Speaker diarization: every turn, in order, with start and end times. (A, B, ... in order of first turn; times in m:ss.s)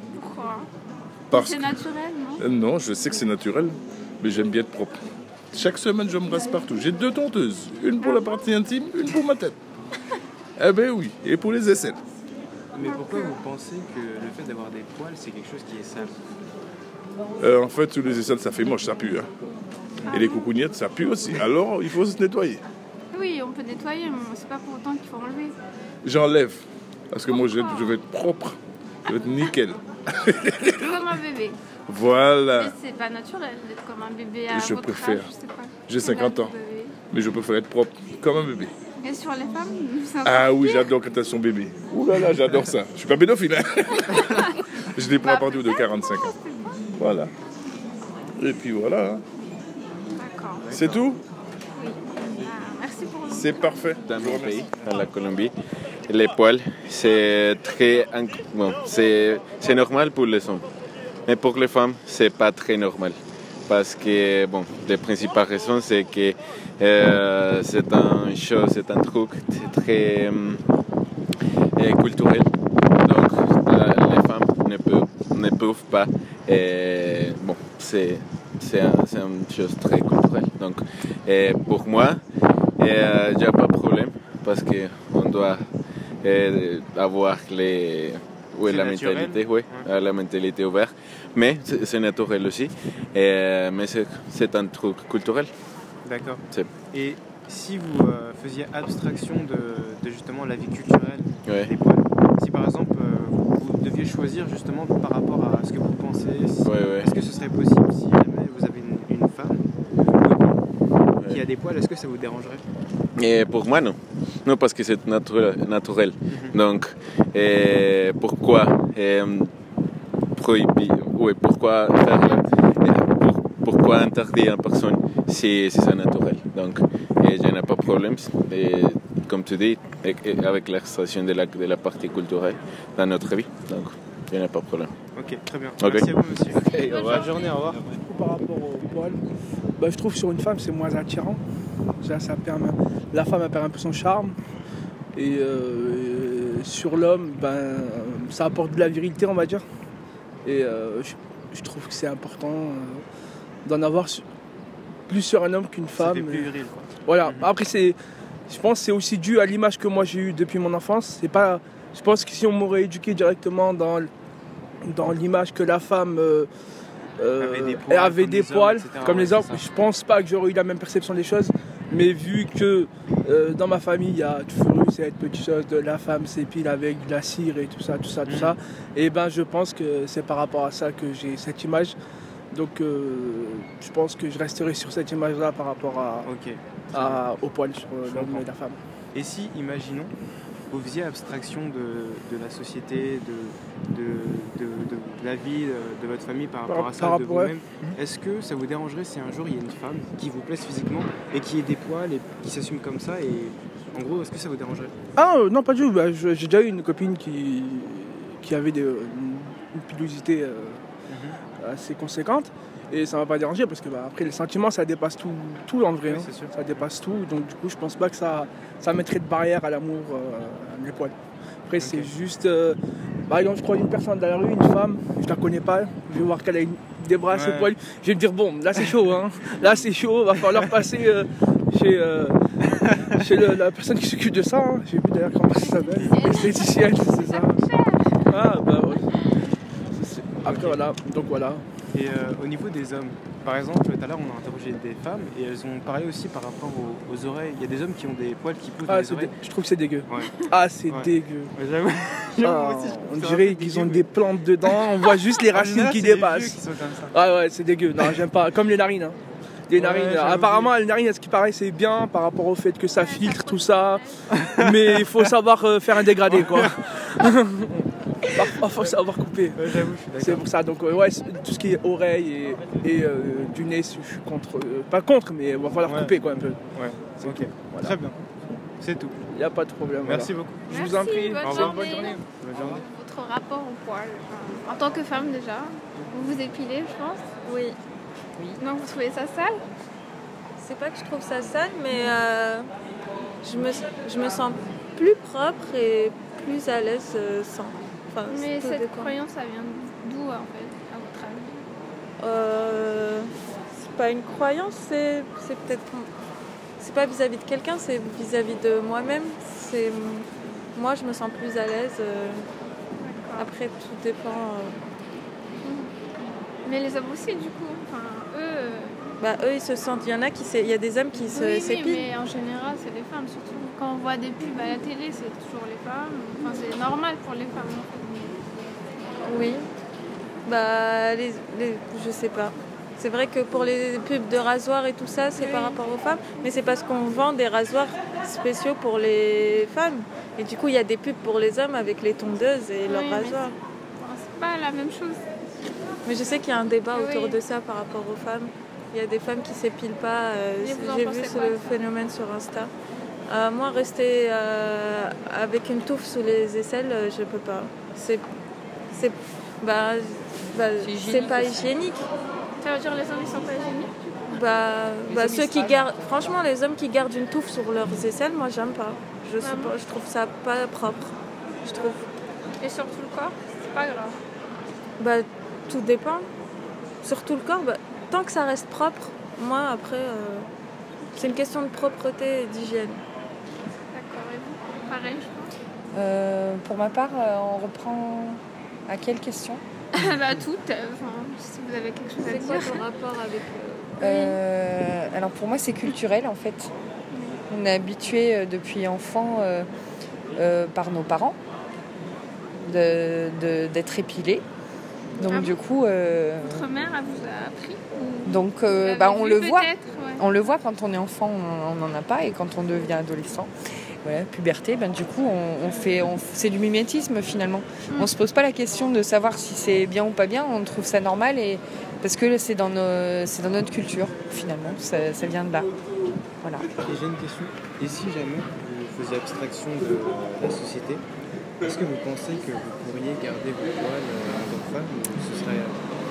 0:00.1-0:00.7 A
0:01.3-0:01.8 B
0:01.3-0:02.4 A
0:02.4-0:05.0 B
0:05.5-0:09.6 B
0:08.0-0:08.5 A
0:10.6-0:12.0 B
0:12.7-0:16.2 C
0:12.8-0:13.3 A
0:17.4-0:19.3 B
0:20.1-0:20.5 A
0:20.1-0:22.6 B
0:23.1-0:25.6 A
0:26.0-0:30.9 B
0:27.3-0:28.0 A
0:30.8-0:31.6 A
0:31.9-0:32.7 B
0:32.5-0:37.0 A
0:34.5-0:35.3 B
0:35.9-0:36.6 B
0:37.1-0:38.7 B
0:39.0-0:40.9 A
0:40.2-0:46.4 B
0:45.2-0:46.8 A
0:47.0-0:47.3 B
0:48.4-0:49.2 B
0:50.2-0:50.7 A
0:50.6-0:51.0 C
0:50.7-0:51.2 B
0:51.8-0:53.8 A
0:53.3-0:54.7 B
0:54.1-0:55.6 D
0:56.1-1:00.7 D
1:01.3-1:10.6 D
1:11.8-1:22.2 D
1:22.8-1:25.7 D
1:26.2-1:35.5 D
1:28.7-1:29.9 C
1:36.0-1:50.7 C
1:41.5-1:41.7 D
1:46.6-1:47.1 D
1:51.3-1:52.6 C
1:53.2-1:59.5 D
1:56.3-1:56.6 C
2:00.4-2:14.9 D
2:15.2-2:17.9 C
2:15.8-2:17.3 D
2:16.7-2:17.5 A
2:17.9-2:19.2 E
2:19.8-2:21.4 E
2:22.0-2:24.3 E
2:25.2-2:29.6 E
2:30.4-2:33.0 E
2:33.6-2:34.2 E
2:35.1-2:36.5 E
2:35.9-2:37.5 C
2:37.1-2:38.0 E
2:38.5-2:44.1 E
2:44.9-2:46.5 E
2:47.2-3:02.0 E
2:47.4-2:49.6 C
2:58.2-2:58.6 C
3:02.5-3:06.3 E
3:06.2-3:07.3 C
3:06.9-3:08.8 E
3:08.0-3:08.5 C
3:09.1-3:10.1 C
3:10.7-3:25.0 C
3:16.7-3:18.0 E
3:25.2-3:30.8 E
3:31.1-3:31.4 C
3:31.6-3:41.1 E
3:36.0-3:36.9 C
3:41.7-3:42.8 E
3:41.8-3:42.1 C
3:43.3-3:52.4 E
3:47.3-3:47.8 C
3:49.6-3:49.8 C
3:52.8-3:53.2 C
3:53.2-3:57.6 E
3:55.6-3:58.4 A
3:58.3-3:59.1 E
3:59.1-3:59.4 A
4:00.0-4:01.6 E
4:00.4-4:00.8 C
4:01.9-4:09.4 C
4:08.9-4:11.5 E
4:10.1-4:14.8 C
4:12.4-4:19.2 E
4:15.5-4:17.2 C
4:19.7-4:24.0 E
4:19.8-4:20.8 C
4:23.0-4:24.2 A
4:24.6-4:36.6 E
4:26.3-4:26.7 C
4:29.6-4:30.5 C
4:35.8-4:36.2 C
4:36.7-4:38.2 C
4:37.2-4:38.0 E
4:38.8-4:39.2 C
4:39.3-4:42.7 E
4:40.0-4:42.8 C
4:40.7-4:47.3 A
4:47.5-4:47.7 F
4:48.6-4:49.6 A
4:50.6-4:52.6 F
4:53.4-4:59.1 F
4:58.3-5:01.6 A
5:02.2-5:03.3 F
5:03.8-5:06.1 F
5:06.8-5:10.2 F
5:10.8-5:12.4 F
5:13.0-5:13.5 A
5:13.4-5:14.7 F
5:15.6-5:15.9 A
5:16.6-5:19.0 A
5:19.2-5:22.0 F
5:21.1-5:28.4 A
5:29.3-5:29.6 F
5:30.5-5:43.5 F
5:35.4-5:35.8 A
5:42.9-5:43.4 A
5:44.0-5:45.2 A
5:46.1-5:52.7 F
5:46.9-5:47.4 A
5:50.6-5:51.7 A
5:53.3-5:58.2 F
5:58.9-6:02.0 F
6:00.8-6:01.8 G
6:02.6-6:04.2 A
6:04.3-6:11.1 F
6:05.1-6:06.4 G
6:09.4-6:09.8 A
6:11.6-6:12.0 F
6:12.6-6:14.2 A
6:15.0-6:16.2 F
6:17.0-6:20.4 F
6:21.2-6:23.0 F
6:23.9-6:25.5 A
6:25.9-6:29.6 G
6:30.0-6:32.8 A
6:32.5-6:33.9 F
6:34.0-6:34.4 A
6:34.0-6:36.7 G
6:37.1-6:37.4 A
6:37.5-6:39.7 G
6:40.4-6:41.4 G
6:42.6-6:44.4 G
6:45.2-6:46.7 G
6:45.3-6:45.6 A
6:46.4-6:50.2 A
6:48.2-6:53.5 G
6:54.0-7:05.7 G
6:57.9-6:58.1 A
7:06.8-7:11.0 C
7:11.6-7:15.9 C